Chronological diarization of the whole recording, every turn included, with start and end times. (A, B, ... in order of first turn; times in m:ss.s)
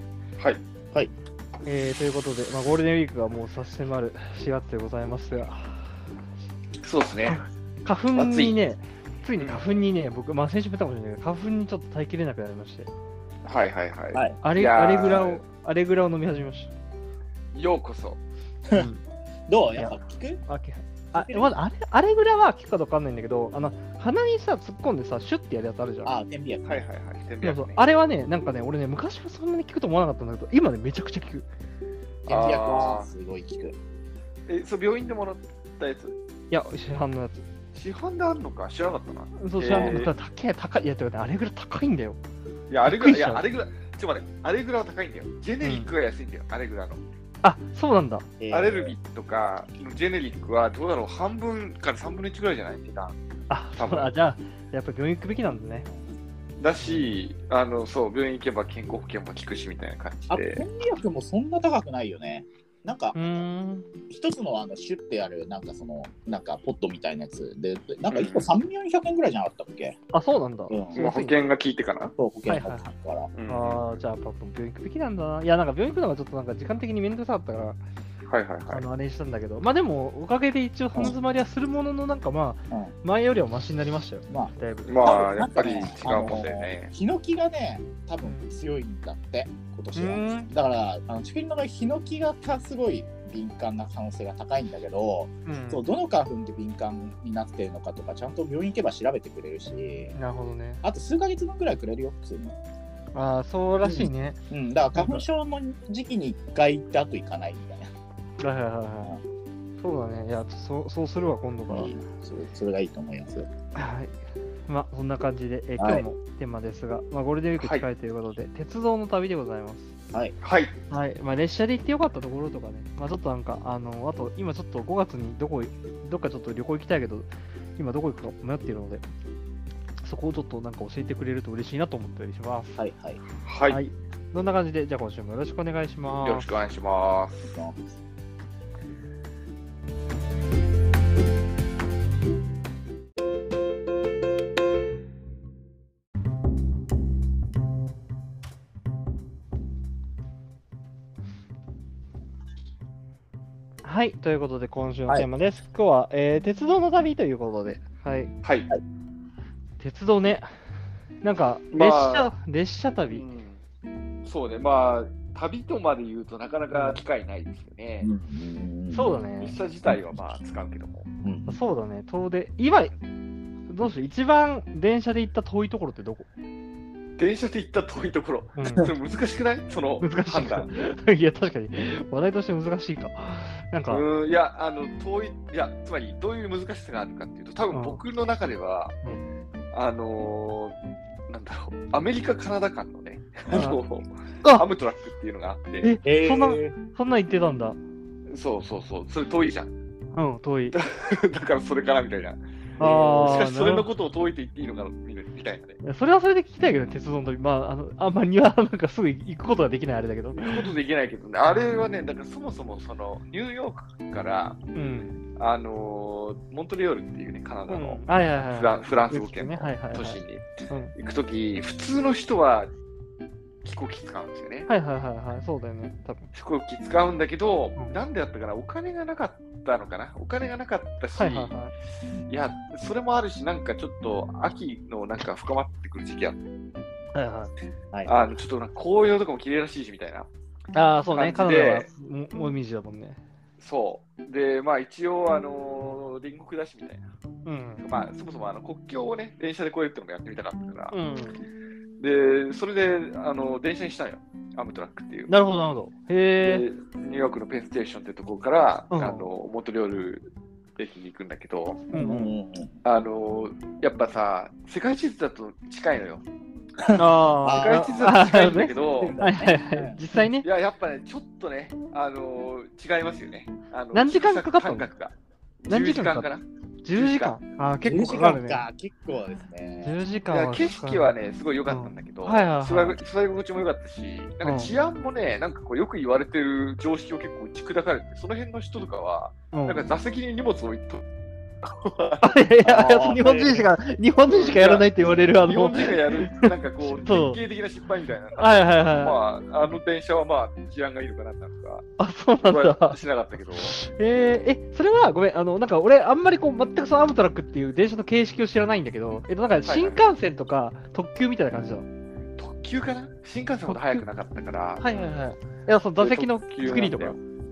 0:01.6-0:05.9 A
0:06.8-0:07.4 B
0:07.2-0:12.9 A
0:08.1-0:08.6 B
0:13.4-0:15.4 B
0:14.4-0:16.7 A
0:17.5-0:18.2 B
0:18.7-0:19.0 A
0:19.5-0:20.4 C
0:20.5-0:26.1 A
0:21.1-0:21.5 C
0:26.0-0:26.9 C
0:26.6-0:27.8 B
0:27.4-0:31.4 A
0:32.2-0:33.1 B
0:32.3-0:33.8 C
0:34.5-0:36.1 B
0:36.5-0:37.4 A
0:37.7-0:40.1 B
0:39.4-0:42.2 A
0:39.7-0:40.0 C
0:42.7-0:47.0 B
0:42.8-0:43.4 A
0:45.6-0:45.9 A
0:47.4-0:48.3 A
0:48.4-0:48.9 C
0:48.5-0:53.2 B
0:53.5-0:55.9 A
0:53.8-0:54.1 B
0:56.6-1:00.6 B
0:56.8-0:57.2 A
1:00.3-1:03.4 C
1:03.1-1:03.9 A
1:04.1-1:10.0 C
1:08.1-1:08.5 B
1:10.1-1:11.4 A
1:10.7-1:11.0 C
1:10.9-1:12.1 B
1:12.2-1:13.3 C
1:12.5-1:12.8 A
1:13.3-1:13.8 B
1:13.5-1:17.8 A
1:18.3-1:18.8 B
1:18.7-1:25.1 A
1:24.3-1:40.2 C
1:24.8-1:26.9 B
1:28.2-1:28.5 A
1:30.0-1:30.5 A
1:35.4-1:35.8 A
1:40.1-1:40.8 A
1:40.8-1:42.6 C
1:43.1-1:44.4 A
1:43.8-1:47.9 C
1:44.9-1:45.2 A
1:48.4-1:49.1 A
1:49.8-1:51.9 A
1:51.7-1:53.5 C
1:53.7-1:54.2 A
1:54.7-1:59.9 A
1:55.8-1:56.0 C
1:57.6-1:57.8 B
2:00.4-2:00.8 B
2:00.9-2:09.0 A
2:10.0-2:12.8 A
2:12.8-2:13.2 C
2:13.4-2:13.8 B
2:13.7-2:16.5 A
2:16.2-2:17.6 B
2:17.5-2:17.8 C
2:33.8-2:38.3 A
2:38.4-2:38.7 B
2:39.8-2:40.5 A
2:41.2-2:43.2 A
2:41.7-2:42.3 B
2:43.1-2:43.6 B
2:44.2-2:48.1 B
2:46.7-2:47.0 A
2:48.0-2:49.1 C
2:48.9-2:49.6 A
2:49.4-2:51.1 B
2:49.9-2:50.1 C
2:51.2-2:51.6 C
2:51.5-2:52.9 A
2:53.7-2:56.3 A
2:57.2-3:00.7 B
2:58.6-2:58.9 A
3:00.0-3:04.0 A
3:03.9-3:09.0 B
3:07.7-3:08.0 A
3:09.7-3:10.8 B
3:11.3-3:16.0 B
3:13.5-3:13.8 A
3:15.8-3:17.8 A
3:16.0-3:16.7 C
3:18.3-3:19.7 B
3:20.1-3:20.8 A
3:20.7-3:25.8 B
3:22.8-3:23.9 A
3:22.8-3:23.3 C
3:25.8-3:30.7 A
3:30.3-3:34.6 B
3:34.7-3:35.2 A
3:35.4-3:42.7 B
3:37.7-3:40.9 A
3:43.6-3:44.7 B
3:44.7-3:46.3 A
3:46.3-3:51.5 B
3:51.2-3:51.7 A
3:52.3-3:56.4 B
3:57.1-3:57.5 A
3:57.9-3:58.2 C
3:58.0-4:00.3 B
4:00.7-4:03.2 A
4:01.1-4:01.9 B
4:03.6-4:07.0 B
4:07.4-4:07.8 A
4:07.8-4:11.0 B
4:10.9-4:11.4 A
4:12.0-4:15.3 B
4:15.3-4:16.6 A
4:16.4-4:21.9 B
4:18.9-4:19.3 A
4:21.9-4:22.3 A
4:21.9-4:22.8 C
4:22.8-4:26.2 B
4:26.8-4:28.1 C
4:26.9-4:30.4 A
4:27.5-4:29.2 B
4:29.0-4:30.0 C
4:30.4-4:37.4 B
4:33.9-4:34.9 A
4:35.7-4:36.3 A
4:36.8-4:38.6 A
4:37.8-4:40.0 C
4:39.8-4:41.1 A
4:40.3-4:51.0 B
4:41.7-4:43.0 A
4:44.4-4:44.7 A
4:49.5-4:49.9 A
4:51.6-4:53.6 B
4:52.2-4:57.4 A
4:52.6-4:53.4 C
4:54.2-4:54.9 B
4:55.4-5:01.9 B
4:58.4-4:59.2 A
5:02.0-5:03.0 A
5:02.4-5:03.8 B
5:03.6-5:11.9 A
5:09.6-5:10.0 B
5:12.4-5:14.8 B
5:13.6-5:14.0 A
5:14.8-5:17.2 A
5:16.0-5:17.2 B